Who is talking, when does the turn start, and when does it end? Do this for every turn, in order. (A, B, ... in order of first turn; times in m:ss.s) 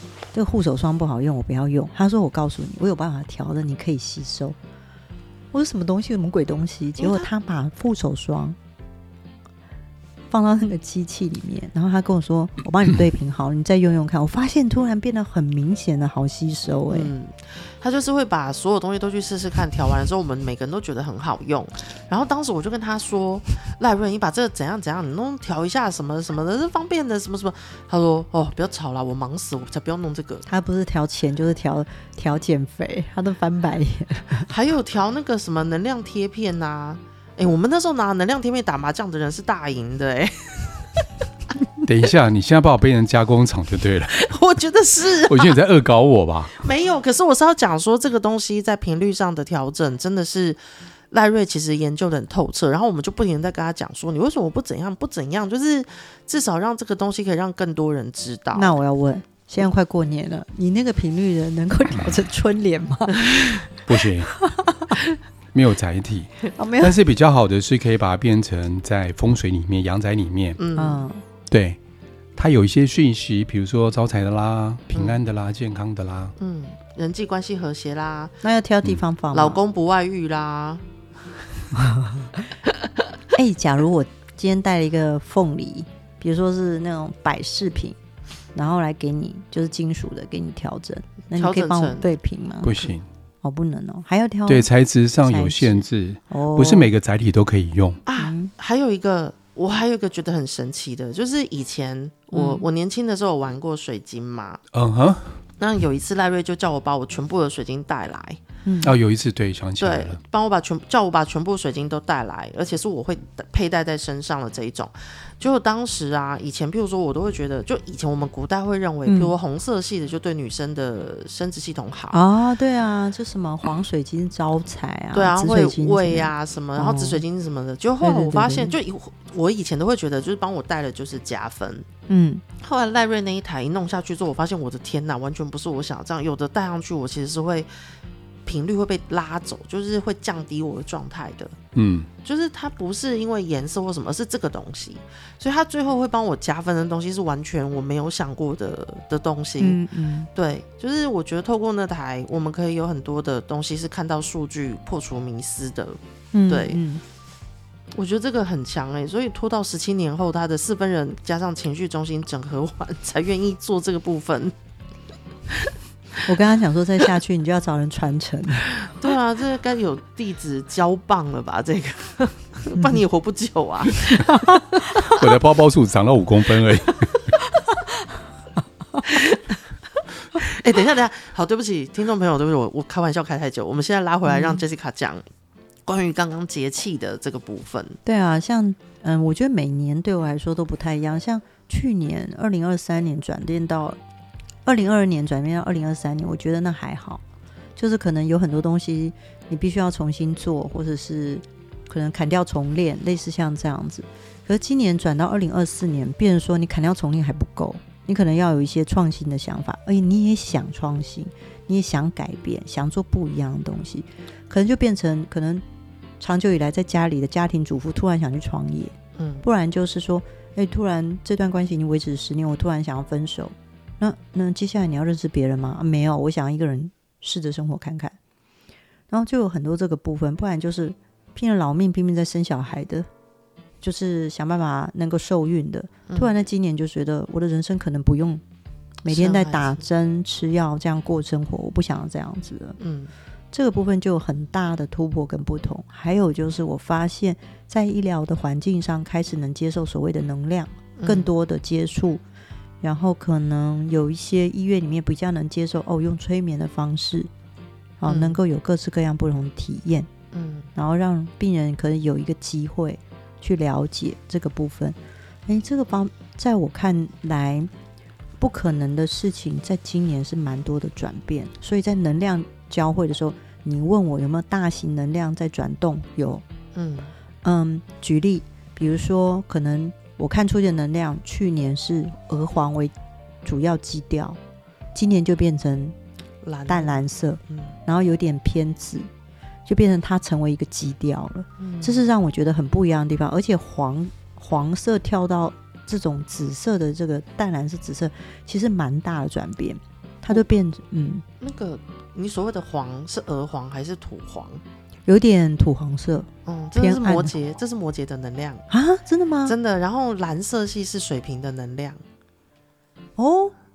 0:00.3-0:04.6 A
0:05.5-0:08.6 A
0:07.0-0:07.3 B
0:10.3-0:17.1 A
0:16.9-0:30.4 B
0:30.5-0:34.5 A
0:34.5-0:41.0 B
0:41.8-0:44.2 C
0:44.1-0:45.6 B
0:45.3-0:46.6 C
0:46.6-0:50.6 B
0:51.1-0:58.8 B
0:58.6-1:03.7 A
1:03.9-1:04.3 C
1:04.4-1:05.0 A
1:05.5-1:10.6 C
1:06.6-1:07.0 A
1:10.6-1:11.1 B
1:10.8-1:11.2 A
1:11.5-1:11.8 C
1:12.4-1:16.3 C
1:14.9-1:15.2 B
1:16.4-1:18.4 B
1:18.4-1:19.6 A
1:19.3-1:20.8 B
1:21.8-1:22.3 A
1:23.3-1:28.0 A
1:28.6-1:32.9 A
1:31.3-1:32.1 B
1:32.6-1:33.1 C
1:33.4-1:34.7 A
1:34.5-1:38.0 C
1:35.2-1:36.9 A
1:38.1-1:44.6 B
1:38.2-1:38.5 A
1:42.3-1:42.6 A
1:44.7-1:45.4 C
1:45.6-1:48.4 B
1:48.6-1:48.9 A
1:48.8-1:50.2 C
1:49.8-2:02.2 B
1:59.1-1:59.3 A
2:02.1-2:07.2 A
2:05.1-2:11.9 B
2:08.0-2:08.8 A
2:12.1-2:12.4 A
2:12.6-2:17.7 B
2:18.5-2:21.6 B
2:21.8-2:22.1 C
2:22.2-2:29.8 B
2:29.6-2:30.3 A
2:30.3-2:36.8 B
2:36.3-2:37.0 A
2:38.0-2:44.5 B
2:46.2-2:48.7 A
2:48.9-2:55.1 B
2:54.2-2:55.0 A
2:55.1-2:57.3 C
2:59.1-2:59.4 B
3:00.4-3:05.2 B
3:04.3-3:04.6 A
3:05.9-3:08.0 B
3:08.0-3:14.0 A
3:14.6-3:17.2 A
3:17.8-3:35.6 A
3:36.2-3:48.2 A
3:39.2-3:39.4 B
3:49.1-3:53.1 A
3:53.8-3:58.4 A
3:59.0-4:02.8 A
3:59.1-3:59.8 B
4:02.8-4:03.1 B
4:03.5-4:12.2 A
4:11.0-4:11.3 B
4:12.8-4:17.3 A
4:18.0-4:20.1 A
4:18.1-4:18.4 B
4:20.3-4:20.7 B
4:20.8-4:27.7 A
4:28.4-4:36.4 A
4:36.8-4:37.1 B
4:37.4-4:42.9 A
4:43.4-4:44.4 A
4:45.0-4:46.0 A
4:46.4-4:47.8 B
4:46.7-4:49.1 A
4:49.7-5:01.2 A
4:51.6-4:52.0 B
5:01.4-5:04.6 B
5:05.1-5:07.3 A
5:06.5-5:08.6 B
5:08.7-5:09.6 A
5:09.5-5:12.0 B
5:13.2-5:13.5 A